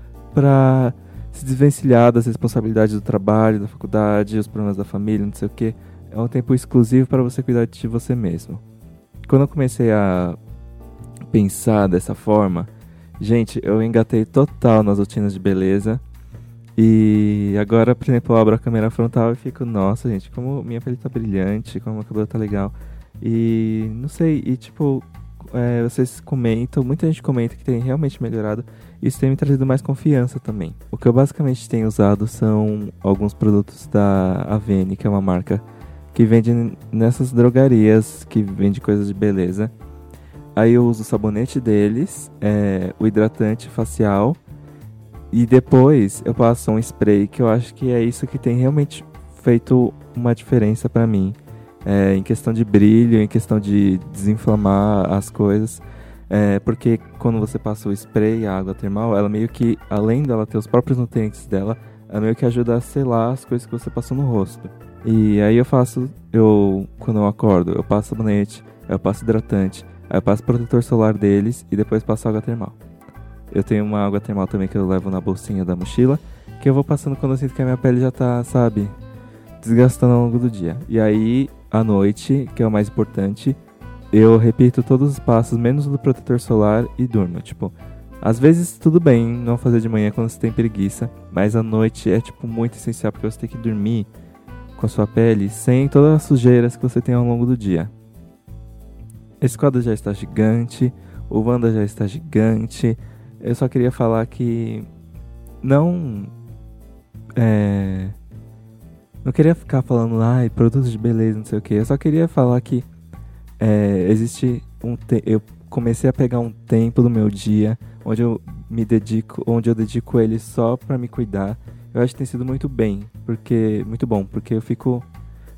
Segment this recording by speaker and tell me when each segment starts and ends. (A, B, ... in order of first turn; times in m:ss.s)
0:00.3-0:08.6 A
0:09.3-0:10.4 A
0:11.3-0:16.0 A
0:16.8-0:35.6 A
0:36.1-0:39.7 A
0:40.6-0:44.4 A
0:45.3-1:12.8 A
1:13.5-1:18.9 A
1:19.6-1:23.6 A
1:24.1-1:34.1 A
1:34.8-1:37.9 A
1:39.4-1:44.9 A
1:45.6-1:46.3 A
1:47.4-1:48.1 A
1:49.2-1:52.8 A
1:53.6-2:05.0 A